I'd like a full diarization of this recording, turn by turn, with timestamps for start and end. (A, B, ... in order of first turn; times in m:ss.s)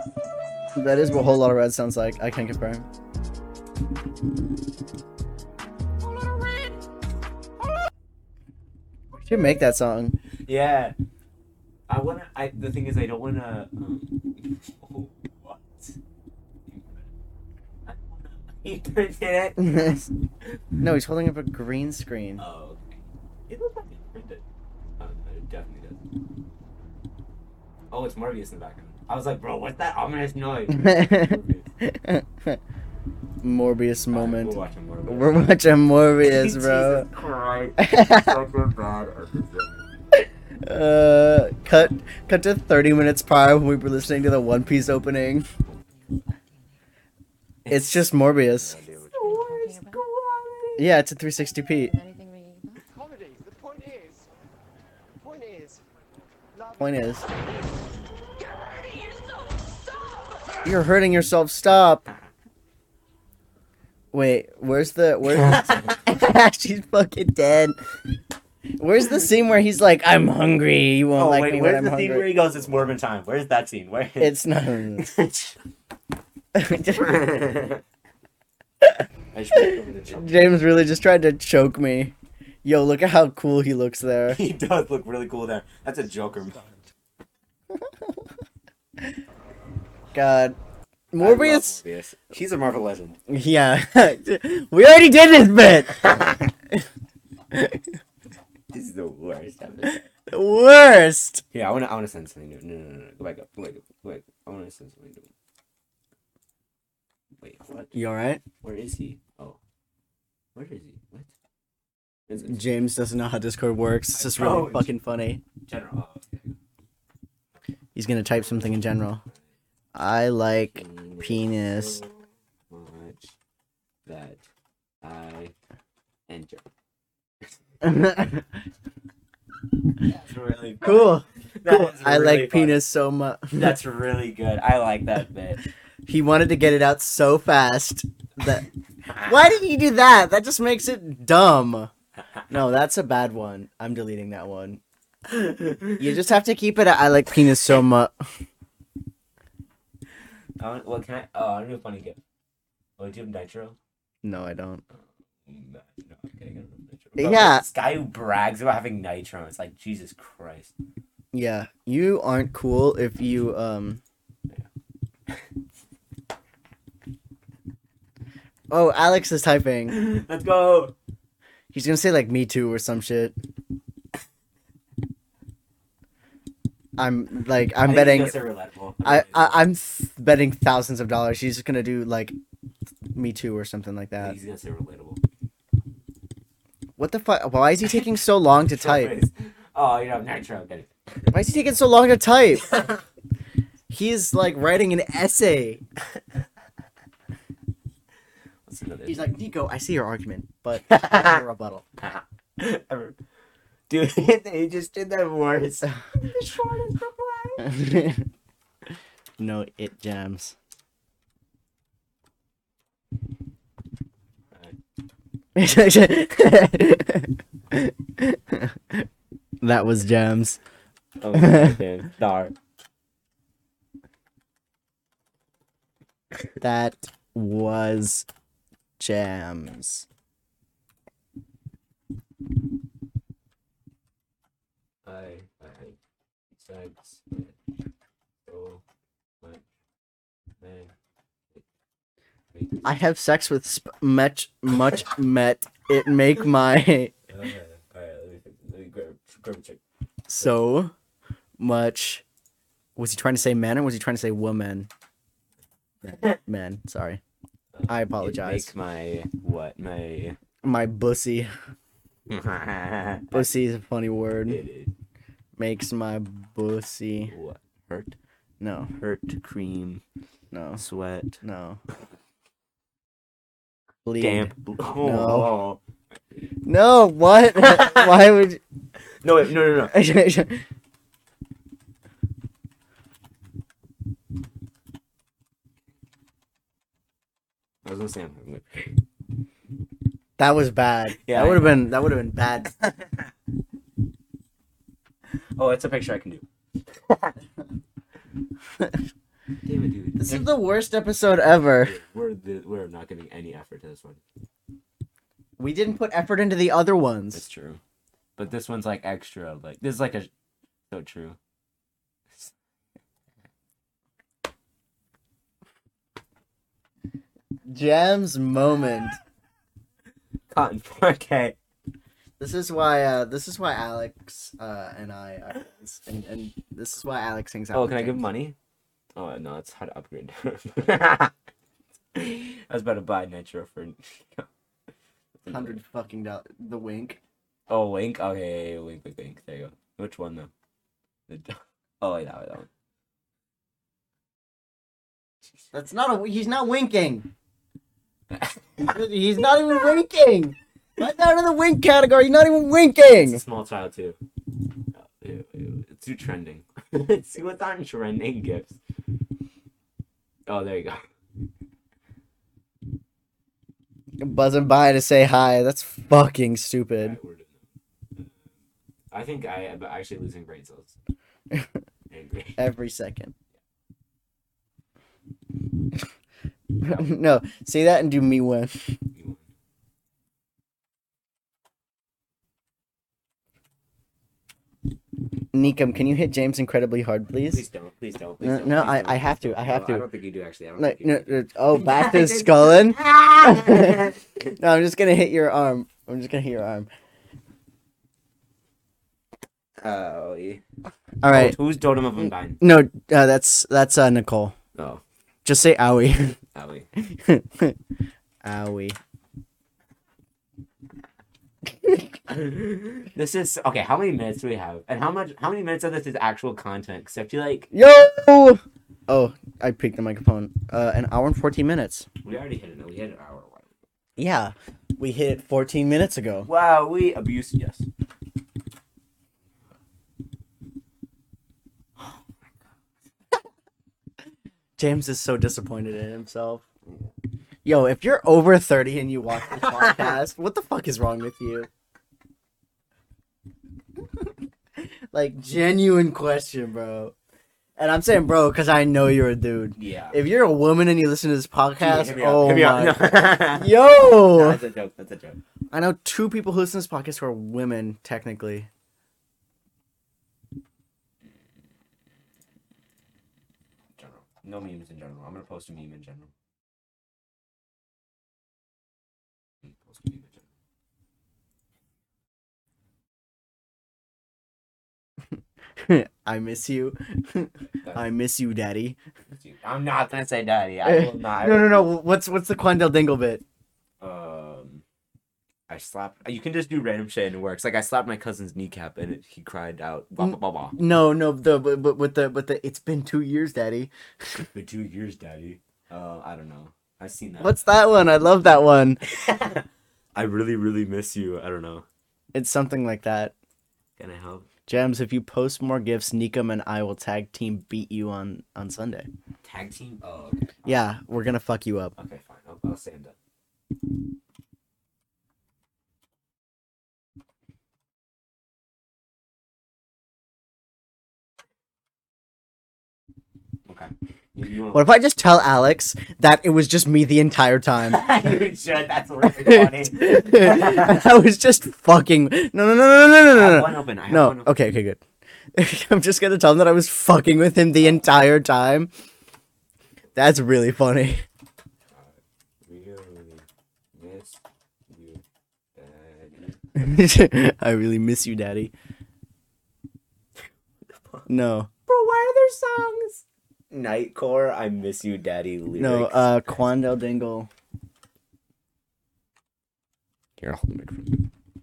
0:00.8-0:02.9 A
0:09.2-0:10.2 A
0:10.5-0:11.0 B
0:11.9-0:16.0 B
0:16.7-0:17.1 B
0:17.9-0:20.6 B
0:19.6-0:20.0 A
0:20.8-0:22.4 A
0:22.4-0:24.4 B
0:25.0-0:26.0 B
0:27.9-0:31.7 B
0:30.7-0:32.6 A
0:33.4-0:37.1 A
0:34.1-0:35.5 B
0:36.2-0:39.8 B
0:37.8-0:38.4 A
0:40.1-0:45.5 A
0:47.6-0:50.9 B
0:47.7-0:48.8 A
0:50.8-0:51.9 A
0:51.9-0:54.3 C
0:55.2-0:55.9 C
0:56.5-0:57.2 C
0:56.8-0:57.3 A
0:58.6-0:59.2 B
1:00.6-1:02.0 A
1:04.1-1:07.8 A
1:05.4-1:06.0 B
1:08.8-1:12.7 A
1:11.2-1:14.4 B
1:14.2-1:15.1 A
1:15.0-1:15.6 B
1:16.6-1:17.2 A
1:16.8-1:17.8 B
1:19.3-1:20.6 B
1:19.6-1:24.4 A
1:24.3-1:26.6 B
1:30.1-1:30.6 A
1:31.1-1:31.8 A
1:31.2-1:33.2 B
1:33.3-1:36.1 A
1:35.9-1:36.5 B
1:37.5-1:37.8 A
1:38.7-1:40.0 B
1:39.8-1:41.4 A
1:41.5-1:45.3 B
1:47.4-1:47.9 B
1:47.9-1:48.4 A
1:48.6-1:49.6 B
1:50.6-1:51.3 B
1:52.3-1:52.6 B
1:52.4-1:55.4 A
1:54.1-1:54.9 B
1:55.6-1:56.6 B
1:58.0-1:59.2 A
1:58.3-1:59.5 B
1:59.9-2:02.0 A
2:00.7-2:03.4 B
2:04.1-2:04.4 B
2:05.0-2:05.5 B
2:06.3-2:06.7 B
2:07.8-2:08.5 A
2:10.0-2:12.8 B
2:10.8-2:13.8 A
2:13.5-2:15.6 B
2:16.1-2:18.7 A
2:19.1-2:19.5 B
2:19.2-2:21.9 A
2:22.5-2:24.8 A
2:25.3-2:26.2 B
2:26.0-2:28.2 A
2:30.6-2:32.2 B
2:33.0-2:33.8 B
2:34.2-2:34.8 A
2:34.9-2:40.7 B
2:37.2-2:37.6 A
2:41.3-2:44.0 A
2:48.7-2:50.1 A
2:49.9-2:51.0 B
2:51.7-2:53.4 A
2:57.0-2:58.5 A
2:57.8-2:59.6 B
2:59.0-3:02.4 A
3:03.2-3:04.4 A
3:04.2-3:05.2 B
3:07.0-3:09.2 A
3:08.5-3:11.3 B
3:11.3-3:12.8 A
3:13.9-3:15.8 A
3:18.7-3:19.3 B
3:19.1-3:21.8 A
3:20.9-3:21.4 B
3:22.0-3:23.2 B
3:23.9-3:27.7 B
3:27.6-3:28.3 A
3:29.4-3:30.6 A
3:35.6-3:39.1 A
3:39.6-3:40.6 A
3:41.2-3:42.6 B
3:41.3-3:41.8 A
3:46.6-3:48.3 A
3:49.0-3:50.1 A
3:55.0-3:56.0 B
3:56.6-3:57.6 B
3:58.5-3:58.8 B
4:00.6-4:00.9 B
4:02.5-4:02.8 B
4:02.8-4:07.1 A
4:07.3-4:09.8 B
4:10.3-4:10.9 A
4:11.6-4:12.2 A
4:13.0-4:14.9 A
4:16.0-4:17.2 A
4:17.7-4:20.4 B
4:17.9-4:18.7 A
4:20.6-4:21.5 A
4:22.3-4:23.5 B
4:23.3-4:24.6 A
4:24.5-4:24.9 B
4:25.6-4:27.3 A
4:27.3-4:28.2 B
4:28.6-4:28.9 A
4:29.0-4:30.0 B
4:30.5-4:30.8 A
4:30.8-4:31.4 B
4:31.4-4:31.8 A
4:34.0-4:35.5 A
4:34.2-4:35.8 B
4:36.7-4:38.6 A
4:37.6-4:38.1 B
4:39.2-4:39.9 B
4:39.9-4:40.6 A
4:47.8-4:49.0 B
4:50.4-4:52.7 A
4:51.2-4:51.9 B
4:52.8-4:53.2 B
4:55.6-4:57.4 B
4:59.6-5:00.5 B
5:00.2-5:02.0 A
5:01.8-5:04.2 B
5:05.6-5:07.4 A
5:07.3-5:07.8 B
5:08.4-5:10.3 B
5:10.9-5:11.4 B
5:17.7-5:19.2 A
5:20.5-5:21.6 B
5:22.4-5:28.3 A
5:27.7-5:28.6 B
5:29.2-5:31.3 B
5:32.1-5:34.5 B
5:35.4-5:35.8 B
5:35.5-5:37.2 A
5:37.7-5:40.5 B
5:41.3-5:42.7 B
5:45.7-5:47.3 A
5:48.3-5:49.0 B
5:48.8-5:53.4 A
5:53.2-5:54.2 B
5:54.9-5:58.8 B
6:00.5-6:01.0 B
6:04.2-6:07.2 A
6:07.0-6:07.6 B
6:08.2-6:08.5 B
6:09.1-6:11.0 B
6:12.1-6:12.6 B
6:12.6-6:13.3 A
6:16.8-6:18.8 A
6:19.1-6:19.5 B
6:25.5-6:27.6 A
6:27.5-6:34.2 B
6:28.4-6:30.1 A
6:30.8-6:34.0 A
6:34.6-6:36.9 A
6:39.8-6:40.6 B
6:41.2-6:41.6 A
6:41.3-6:42.6 B
6:42.5-6:44.6 A
6:44.8-6:45.0 B
6:45.4-6:46.4 A
6:46.5-6:46.9 B
6:47.0-6:47.8 A
6:48.4-6:49.0 A
6:52.3-6:57.7 B
6:57.7-7:02.1 A
7:02.2-7:03.7 B
7:04.2-7:06.5 A
7:06.4-7:07.9 B
7:14.8-7:16.7 A
7:17.6-7:21.7 A
7:19.5-7:20.1 B
7:24.8-7:27.1 A
7:27.8-7:34.6 A
7:29.8-7:30.2 B
7:31.8-7:35.4 B
7:35.7-7:38.7 A
7:44.0-7:46.3 B
7:49.6-7:50.5 B
7:55.8-7:59.0 A
7:59.3-8:01.9 B
8:00.8-8:03.4 A
8:04.0-8:04.8 B
8:05.7-8:10.8 B
8:10.2-8:13.9 A
8:14.4-8:17.7 B
8:17.4-8:19.0 A
8:19.1-8:21.9 B
8:22.3-8:23.3 A
8:24.0-8:24.5 B
8:24.7-8:29.1 A
8:29.4-8:30.8 B
8:30.6-8:32.0 A
8:32.0-8:33.2 B
8:43.7-8:44.9 B
8:44.7-8:48.1 A
8:47.8-8:51.0 B
8:49.3-8:55.0 A
8:53.3-8:54.6 B
8:55.6-8:58.9 A
9:00.2-9:01.2 A
9:01.9-9:05.2 B
9:05.8-9:06.6 B
9:06.8-9:08.7 A
9:10.9-9:11.3 B
9:11.3-9:13.2 A
9:13.7-9:16.6 B
9:15.8-9:17.5 A
9:20.4-9:21.2 B